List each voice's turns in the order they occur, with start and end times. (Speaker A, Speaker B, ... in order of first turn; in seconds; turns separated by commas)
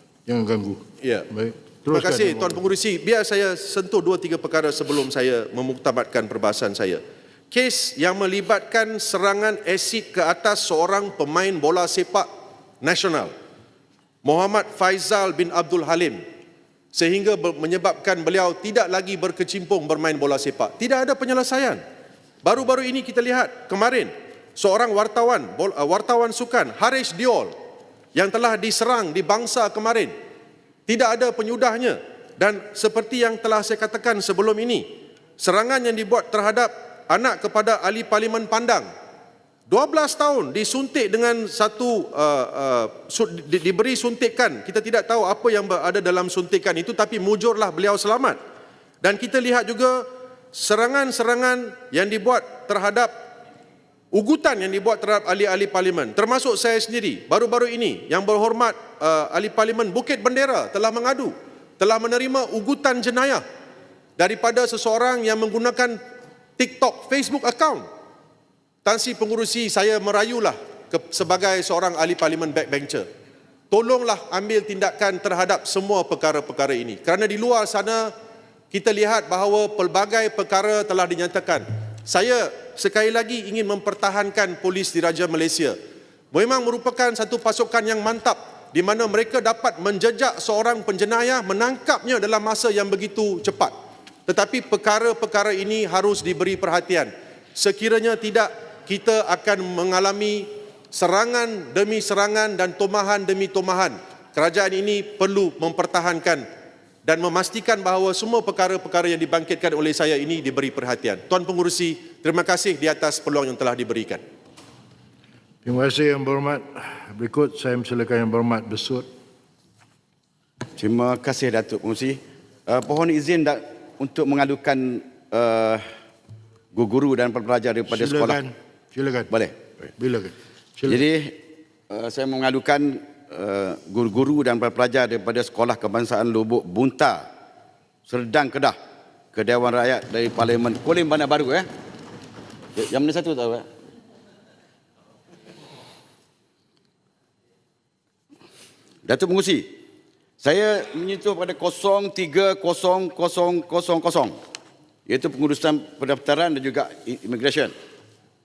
Speaker A: 0.3-2.6, Speaker B: 1.0-1.3, Speaker B: 1.9-12.3, Speaker B: 12.8-13.3, Speaker B: 14.2-16.2, Speaker B: 16.9-21.8, Speaker B: 22.4-27.5, Speaker B: 28.1-30.1, Speaker B: 30.9-34.9, Speaker B: 35.4-38.9, Speaker B: 39.7-48.4, Speaker B: 49.0-53.1, Speaker B: 54.1-63.4, Speaker B: 64.2-66.0, Speaker B: 66.6-67.9, Speaker B: 68.8-73.0, Speaker B: 73.7-78.1, Speaker B: 78.7-85.8, Speaker B: 86.3-93.7, Speaker B: 94.3-106.5, Speaker B: 107.0-114.2, Speaker A: 115.7-119.1, Speaker C: 120.8-125.8, Speaker C: 126.7-128.4, Speaker A: 127.9-129.3, Speaker C: 129.3-129.9, Speaker A: 130.0-131.0, Speaker C: 130.9-137.3, Speaker C: 138.1-138.8, Speaker C: 139.3-141.7, Speaker C: 142.8-143.7, Speaker C: 149.1-149.8, Speaker C: 150.4-154.4, Speaker C: 155.1-157.7